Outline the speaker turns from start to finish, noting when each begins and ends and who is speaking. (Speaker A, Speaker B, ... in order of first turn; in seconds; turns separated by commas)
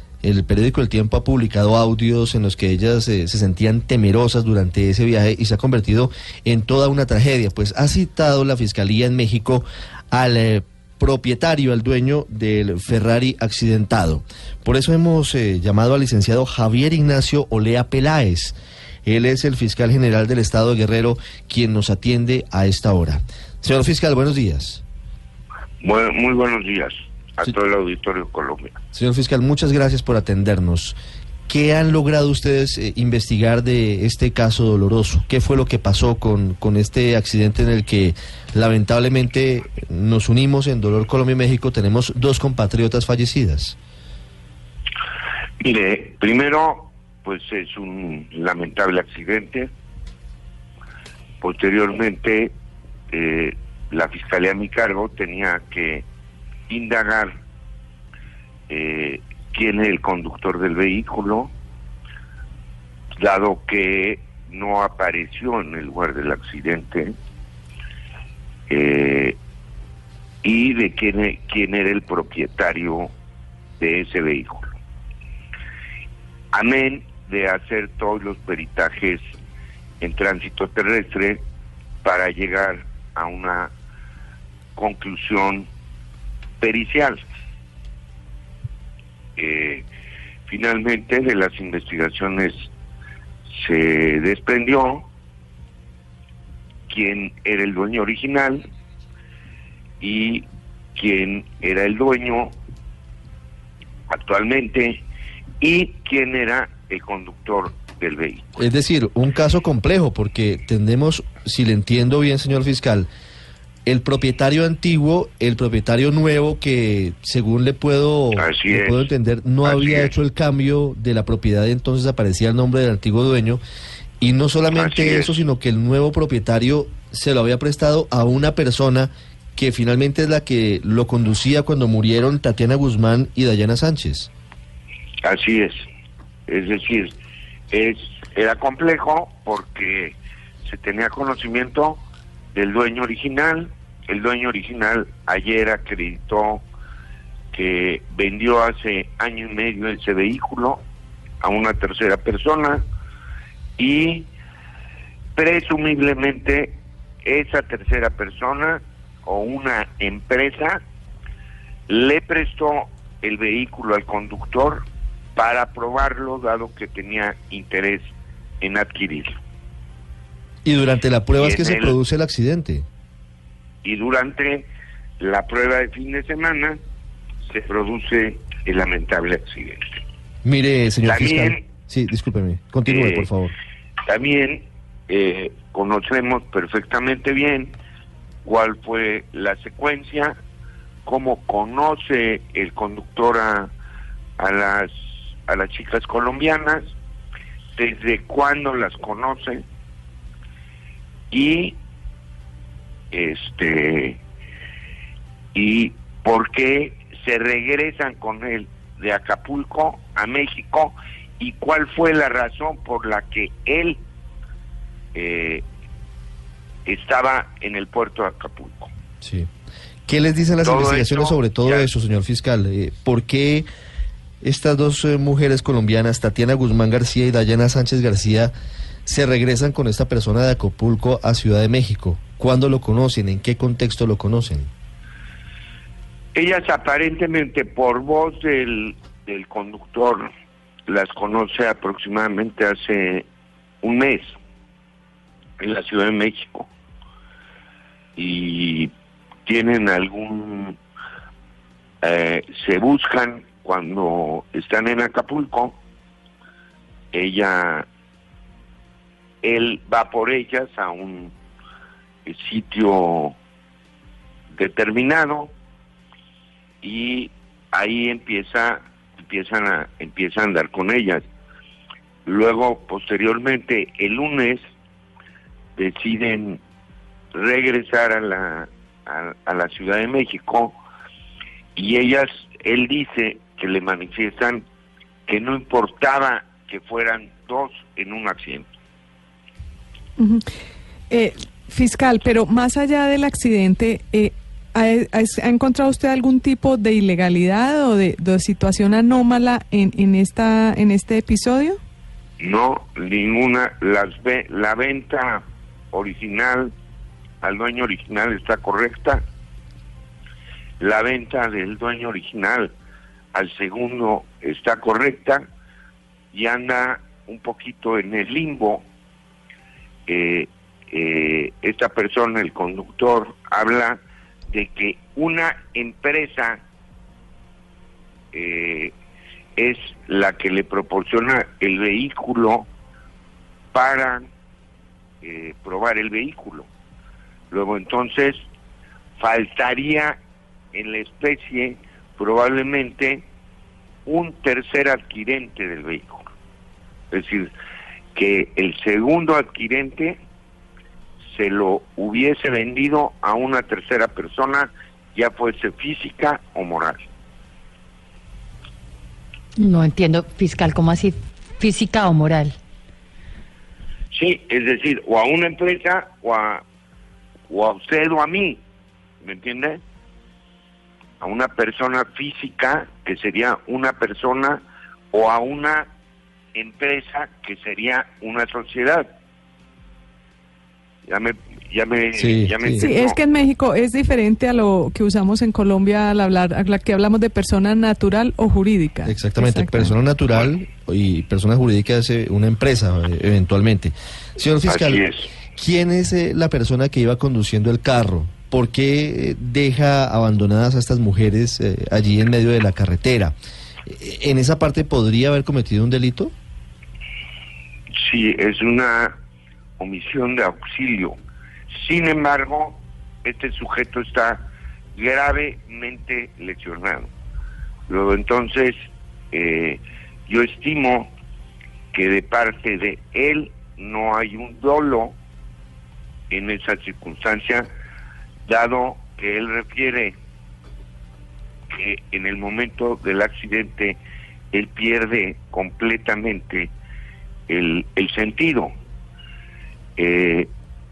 Speaker A: 0.2-24.8, Speaker B: 25.8-28.8, Speaker A: 28.9-31.0, Speaker A: 31.5-43.8, Speaker B: 45.6-49.7, Speaker B: 51.4-52.5, Speaker B: 53.1-56.0, Speaker B: 56.7-57.4, Speaker B: 58.7-61.5, Speaker B: 63.2-67.1, Speaker B: 68.7-69.4, Speaker B: 70.4-73.1, Speaker B: 73.8-74.7, Speaker B: 76.5-79.3, Speaker B: 80.0-81.4, Speaker B: 82.0-83.7, Speaker B: 84.8-85.7, Speaker B: 86.6-87.2, Speaker B: 89.4-89.9, Speaker B: 90.5-92.7, Speaker B: 93.5-95.1, Speaker B: 96.9-98.7, Speaker B: 100.0-102.5, Speaker B: 104.1-105.0, Speaker B: 105.6-108.5, Speaker A: 108.6-113.1, Speaker A: 113.9-123.6, Speaker B: 118.3-119.1, Speaker B: 119.6-120.1, Speaker A: 124.2-134.3, Speaker B: 124.7-125.4, Speaker B: 135.2-135.8, Speaker B: 136.5-137.2, Speaker B: 137.7-142.0, Speaker B: 142.5-146.7, Speaker B: 147.5-150.8, Speaker B: 151.4-152.8, Speaker B: 153.8-154.3, Speaker B: 155.4-160.8, Speaker B: 161.9-164.8, Speaker B: 165.4-169.4, Speaker A: 170.7-172.9, Speaker B: 171.4-172.0, Speaker B: 173.8-174.7, Speaker B: 175.2-176.8, Speaker B: 177.5-180.0, Speaker A: 180.4-183.5, Speaker B: 181.0-181.6, Speaker B: 182.9-183.3, Speaker B: 184.1-187.8, Speaker B: 188.4-190.3, Speaker B: 191.1-193.7, Speaker B: 194.4-196.9, Speaker B: 197.8-199.6, Speaker B: 201.3-201.8, Speaker B: 203.1-204.2, Speaker B: 205.6-214.0, Speaker B: 215.2-215.6, Speaker B: 216.9-218.9, Speaker A: 219.2-219.5, Speaker A: 220.1-223.7, Speaker B: 220.6-221.9, Speaker A: 224.4-228.5, Speaker A: 229.1-234.7, Speaker B: 236.3-240.3, Speaker B: 240.9-243.3, Speaker B: 243.8-244.3, Speaker B: 245.6-246.7, Speaker B: 248.2-248.9, Speaker B: 249.5-250.8, Speaker B: 252.0-255.8, Speaker B: 257.1-257.9, Speaker B: 259.4-261.3, Speaker B: 262.3-263.4, Speaker B: 264.5-265.5, Speaker B: 266.8-271.3, Speaker B: 272.3-274.7, Speaker B: 275.8-276.6, Speaker B: 277.3-280.8, Speaker B: 281.8-284.6, Speaker B: 285.3-288.7, Speaker C: 290.2-290.5, Speaker C: 291.1-301.8, Speaker B: 302.4-306.7, Speaker B: 307.4-309.2, Speaker B: 310.8-312.7, Speaker B: 313.3-315.4, Speaker B: 316.3-318.9, Speaker B: 320.1-324.0, Speaker B: 324.5-326.6, Speaker B: 328.3-328.9, Speaker B: 329.6-332.7, Speaker B: 333.7-334.3, Speaker B: 335.2-336.7, Speaker B: 337.5-338.4, Speaker B: 339.2-340.2, Speaker B: 340.7-343.3, Speaker B: 344.1-346.3, Speaker B: 347.1-347.5, Speaker B: 348.1-350.2, Speaker B: 351.3-357.1, Speaker D: 359.6-362.5, Speaker B: 364.1-366.6, Speaker B: 367.5-368.6, Speaker B: 369.2-369.8, Speaker B: 371.2-375.9, Speaker B: 376.6-379.1, Speaker B: 381.1-383.2, Speaker A: 382.1-382.9, Speaker C: 382.7-389.9, Speaker A: 389.1-395.0, Speaker B: 394.7-395.3, Speaker A: 395.6-403.3, Speaker A: 403.9-406.3, Speaker B: 408.0-409.1, Speaker B: 409.8-411.1, Speaker B: 411.7-417.1, Speaker B: 417.9-418.8, Speaker B: 419.3-421.1, Speaker B: 421.9-425.2, Speaker B: 426.3-427.7, Speaker B: 428.5-430.2, Speaker B: 431.7-434.0, Speaker B: 434.5-436.7, Speaker B: 437.5-438.7, Speaker B: 440.0-440.5